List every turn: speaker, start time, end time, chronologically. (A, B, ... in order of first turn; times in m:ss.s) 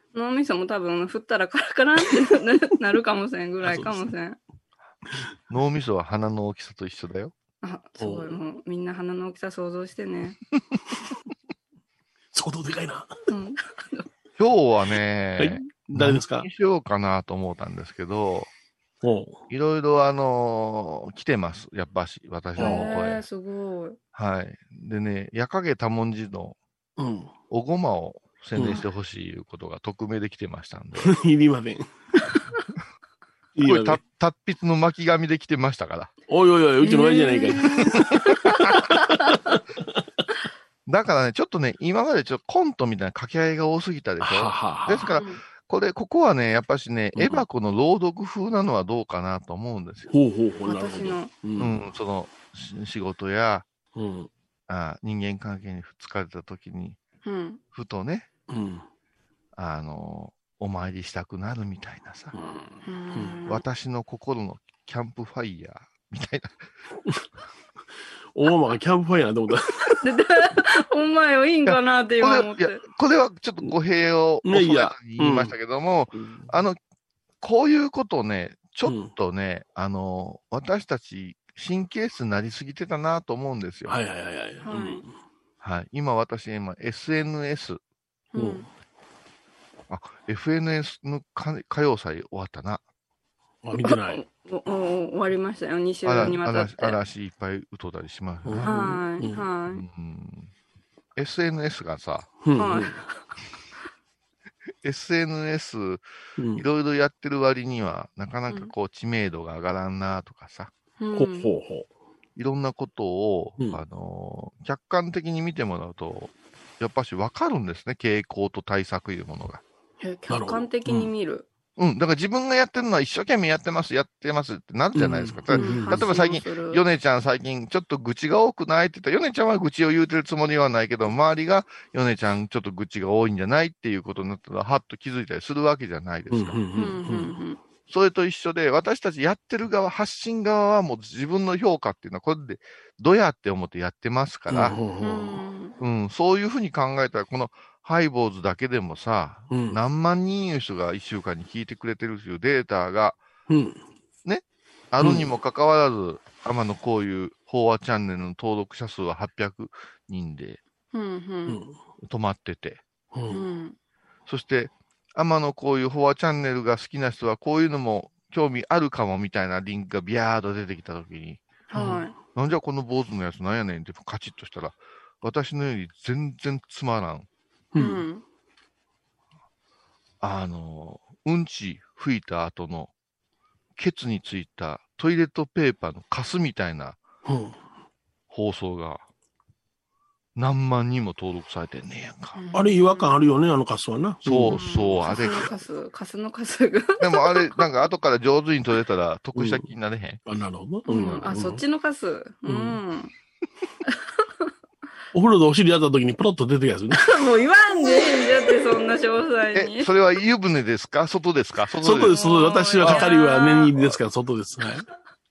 0:00.1-0:04.4 A
0:03.6-0:04.1 B
0:05.5-0:07.3 C
0:07.6-0:10.4 A
0:08.0-0:08.4 B
0:12.3-0:13.1 B
0:13.3-0:14.1 A
0:14.4-0:18.5 C
0:15.4-0:16.5 B
0:19.0-0:19.4 B
0:19.5-0:23.2 C
0:22.6-0:24.0 A
0:22.6-0:22.9 B
0:24.2-0:26.6 C
0:27.0-0:27.3 B
0:27.5-0:31.2 C
0:28.6-0:28.8 B
0:31.0-0:32.3 B
0:33.6-0:34.0 B
0:33.6-0:36.1 C
0:36.3-0:38.6 B
0:36.8-0:39.3 A
0:39.3-0:39.6 B
0:40.9-0:50.1 C
0:44.2-0:45.1 B
0:45.2-0:45.4 A
0:47.2-0:47.4 B
0:50.1-0:51.8 B
0:50.7-0:51.3 A
0:51.6-0:53.7 C
0:54.0-0:54.3 B
0:54.7-0:57.0 C
0:57.2-0:57.6 A
0:57.7-0:58.3 C
0:58.5-0:58.8 B
0:59.6-1:02.4 C
1:02.3-1:03.4 B
1:02.9-1:03.6 A
1:03.5-1:06.6 C
1:08.4-1:10.0 B
1:10.0-1:12.8 A
1:11.7-1:16.8 C
1:14.4-1:15.5 B
1:16.2-1:16.5 B
1:17.4-1:24.0 C
1:18.8-1:19.1 B
1:23.9-1:25.1 B
1:24.6-1:25.0 A
1:25.6-1:27.8 C
1:28.3-1:28.7 A
1:28.4-1:28.7 B
1:29.9-1:32.8 C
1:33.6-1:34.2 B
1:33.8-1:37.0 A
1:36.0-1:38.7 C
1:38.5-1:39.4 B
1:38.6-1:39.8 A
1:39.7-1:40.5 C
1:41.2-1:42.3 C
1:42.4-1:43.0 B
1:42.6-1:43.2 A
1:44.8-1:46.0 C
1:46.4-1:46.6 B
1:46.6-1:50.7 C
1:51.0-1:51.5 A
1:51.2-1:51.9 B
1:52.4-1:59.6 C
2:00.0-2:01.5 A
2:00.3-2:01.1 B
2:01.8-2:16.6 C
2:05.0-2:06.0 B
2:05.5-2:06.8 A
2:16.3-2:17.3 B
2:16.8-2:17.6 A
2:17.9-2:24.8 C
2:24.5-2:25.4 B
2:25.0-2:25.8 A
2:25.8-2:33.2 C
2:29.5-2:29.8 B
2:33.5-2:33.8 B
2:34.2-2:40.6 C
2:35.0-2:35.3 B
2:40.9-2:41.6 A
2:41.5-2:41.8 B
2:42.0-2:42.8 C
2:43.1-2:43.4 B
2:43.3-2:43.8 A
2:44.3-2:51.4 C
2:51.7-2:52.1 A
2:51.7-2:52.0 B
2:52.3-2:57.3 C
2:57.7-2:58.0 B
2:57.8-2:58.2 A
3:00.2-3:02.9 C
3:03.8-3:07.0 C
3:07.2-3:07.6 B
3:08.3-3:09.1 C
3:10.4-3:12.4 C
3:12.4-3:13.2 A
3:12.5-3:14.6 B
3:14.2-3:15.5 C
3:14.5-3:17.6 A
3:17.0-3:20.2 C
3:19.4-3:19.6 B
3:20.3-3:21.6 B
3:20.9-3:23.1 A
3:22.5-3:22.8 B
3:25.1-3:27.1 B
3:26.9-3:29.9 A
3:29.5-3:32.2 C
3:31.8-3:34.9 B
3:32.1-3:33.7 A
3:32.8-3:33.1 C